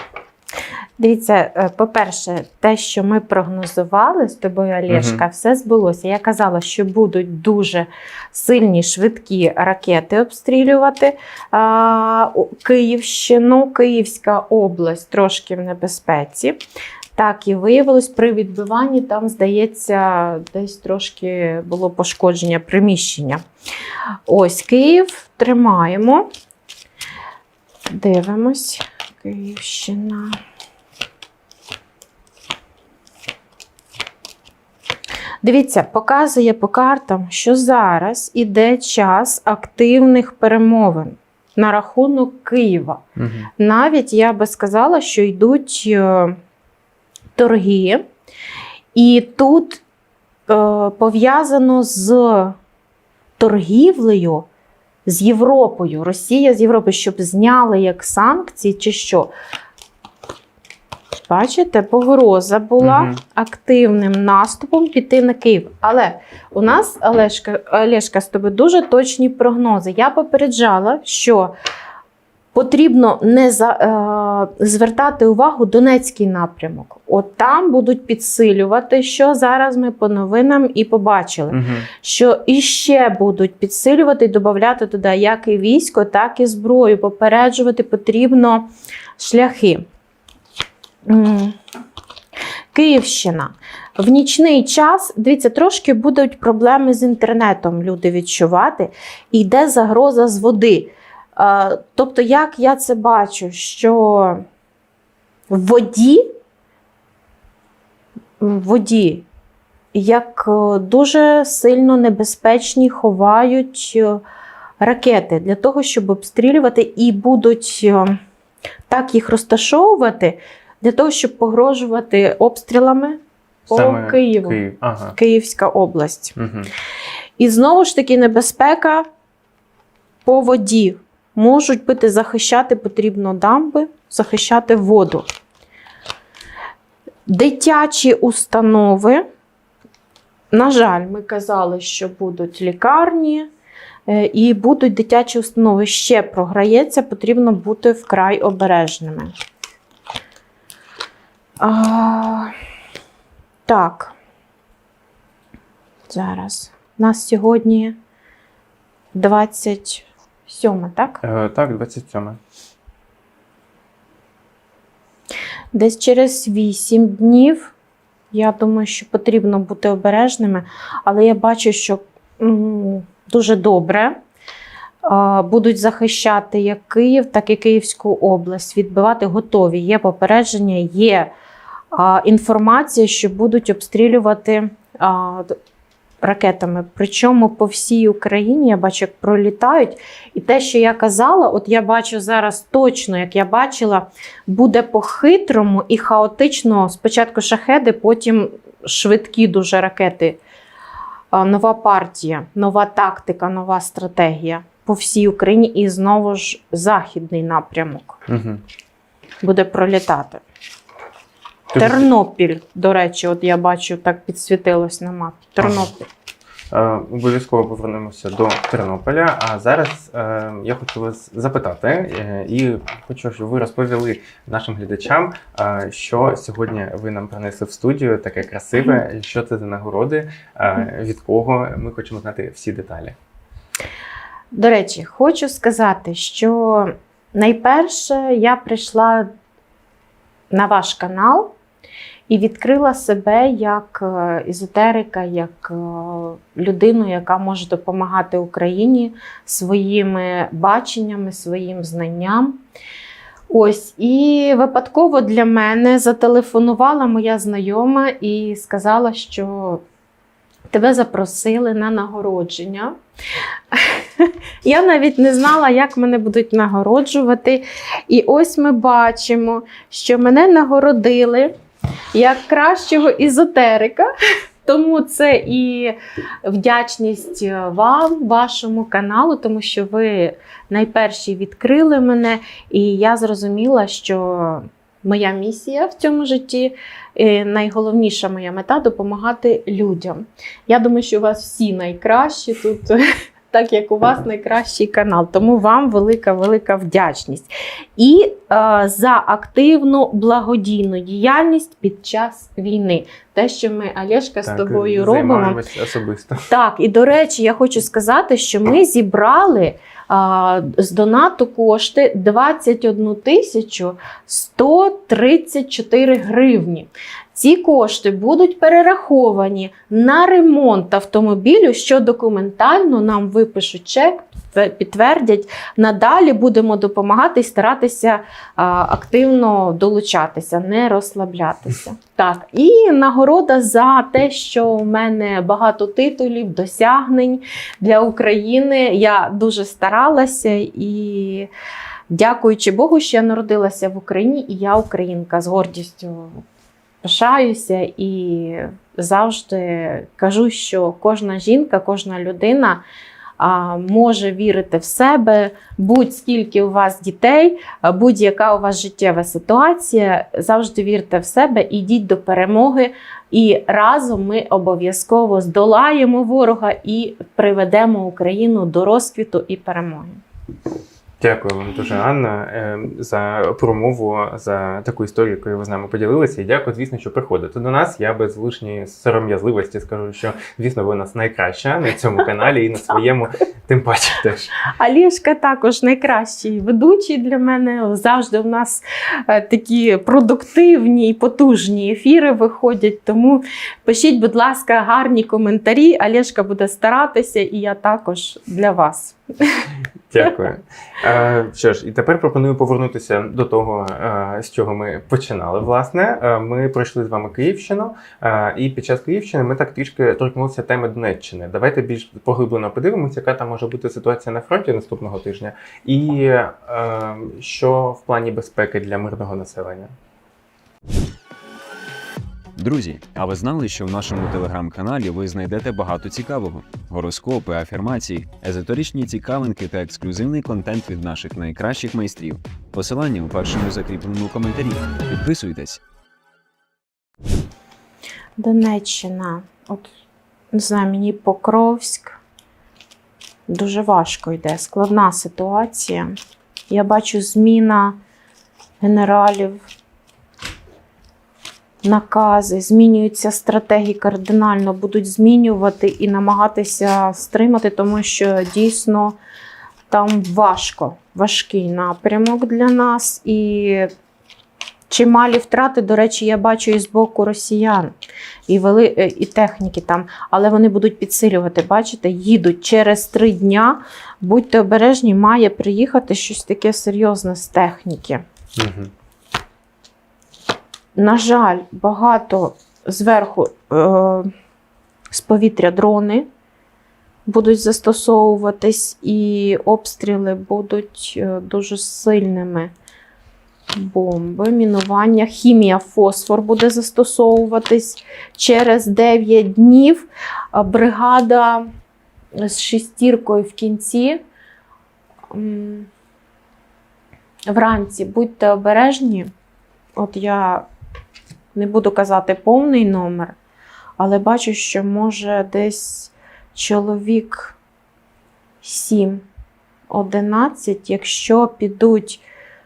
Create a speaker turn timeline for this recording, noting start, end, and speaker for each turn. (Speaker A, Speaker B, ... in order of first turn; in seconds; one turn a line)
Speaker A: 1.0-16.6
Speaker B: 4.9-5.2
Speaker A: 17.1-23.4
Speaker A: 24.3-26.3
Speaker A: 27.9-30.4
Speaker A: 35.4-43.0
Speaker B: 43.2-43.5
Speaker A: 43.6-46.4
Speaker A: 47.4-48.1
Speaker A: 49.0-49.8
Speaker A: 50.5-52.6
Speaker A: 53.4-54.5
Speaker A: 55.1-59.3
Speaker A: 61.3-71.5
Speaker B: 62.8-63.2
Speaker A: 72.5-89.8
Speaker B: 81.5-81.9
Speaker A: 91.1-91.6
Speaker A: 92.7-104.5
Speaker A: 105.5-106.2
Speaker A: 108.4-109.3
Speaker A: 109.9-114.2
Speaker A: 114.8-118.2
Speaker A: 118.9-124.6
Speaker B: 123.7-125.2
Speaker A: 125.2-126.4
Speaker B: 126.4-126.7
Speaker A: 127.4-129.1
Speaker A: 130.2-135.3
Speaker A: 137.3-139.2
Speaker A: 140.5-143.5
Speaker A: 144.1-149.3
Speaker A: 151.6-152.5
Speaker A: 153.7-154.1
Speaker A: 156.1-158.0
Speaker A: 159.1-161.2
Speaker B: 161.2-162.4
Speaker A: 165.7-167.7
Speaker A: 168.3-174.2
Speaker A: 175.0-181.3
Speaker A: 181.9-185.6
Speaker A: 186.2-200.4
Speaker A: 201.3-208.2
Speaker B: 208.3-208.6
Speaker A: 209.4-210.4
Speaker B: 211.7-212.1
Speaker A: 211.8-216.1
Speaker B: 215.6-215.9
Speaker B: 216.7-233.2
Speaker A: 234.5-239.3
Speaker A: 240.5-241.5
Speaker A: 242.3-252.6
Speaker A: 253.5-259.8
Speaker A: 260.7-262.9
Speaker A: 263.7-271.5
Speaker A: 272.1-274.1
Speaker A: 274.6-305.6
Speaker B: 304.4-306.5
Speaker A: 306.5-341.5
Speaker A: 342.1-346.4
Speaker A: 347.0-352.8
Speaker A: 353.4-370.2
Speaker B: 371.2-384.6
Speaker A: 384.7-399.7
Speaker B: 400.1-419.9
Speaker C: 422.6-435.8
Speaker A: 438.4-439.9
Speaker A: 440.5-442.2
Speaker A: 443.5-446.1
Speaker A: 446.7-448.0
Speaker A: 448.8-449.6
Speaker A: 451.8-459.2
Speaker A: 459.9-463.9
Speaker A: 464.9-467.9
Speaker A: 468.5-478.2
Speaker B: 478.6-478.9
Speaker A: 481.0-484.3
Speaker A: 485.1-486.3
Speaker A: 487.3-492.7
Speaker A: 493.7-501.7
Speaker A: 502.4-504.2
Speaker A: 505.3-505.9
Speaker A: 507.5-509.3
Speaker A: 510.0-510.7
Speaker A: 511.6-513.4
Speaker A: 514.0-517.6
Speaker A: 518.6-519.3
Speaker A: 519.9-522.2